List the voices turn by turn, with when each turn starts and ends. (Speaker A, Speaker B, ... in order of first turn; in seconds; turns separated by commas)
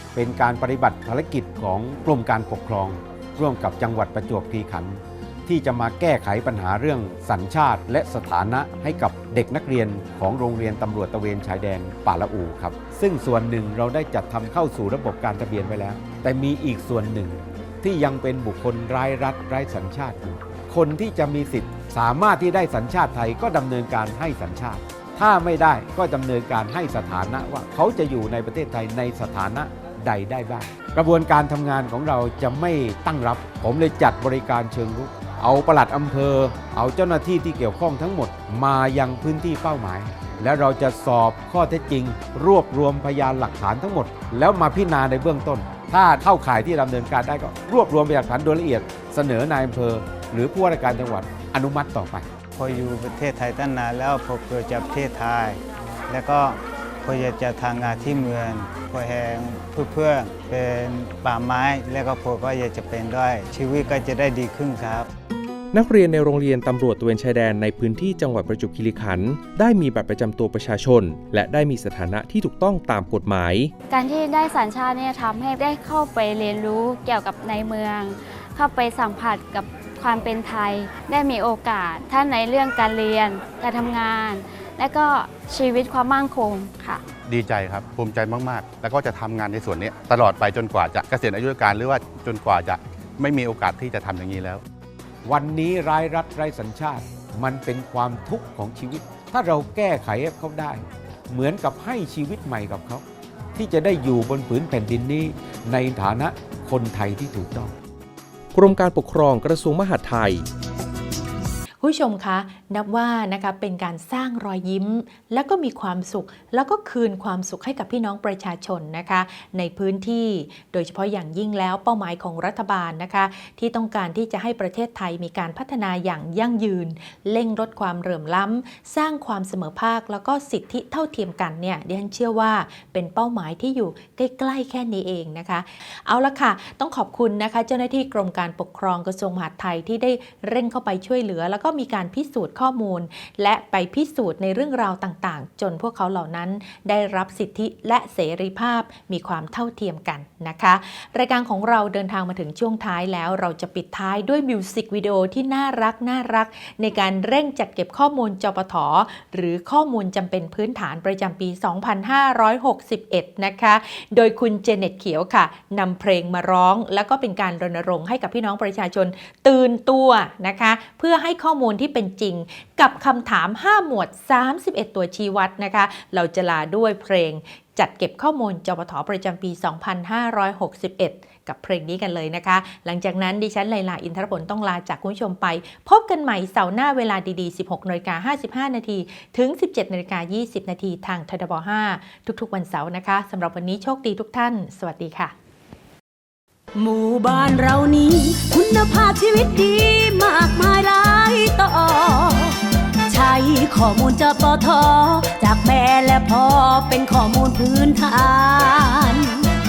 Speaker A: 0.1-52.3, Speaker B: 52.5-65.1, Speaker C: 65.7-73.7, Speaker D: 73.9-87.0, Speaker E: 87.3-94.6, Speaker A: 95.2-103.0, Speaker A: 103.6-107.7, Speaker C: 108.5-110.5, Speaker F: 111.8-195.3, Speaker G: 196.8-209.5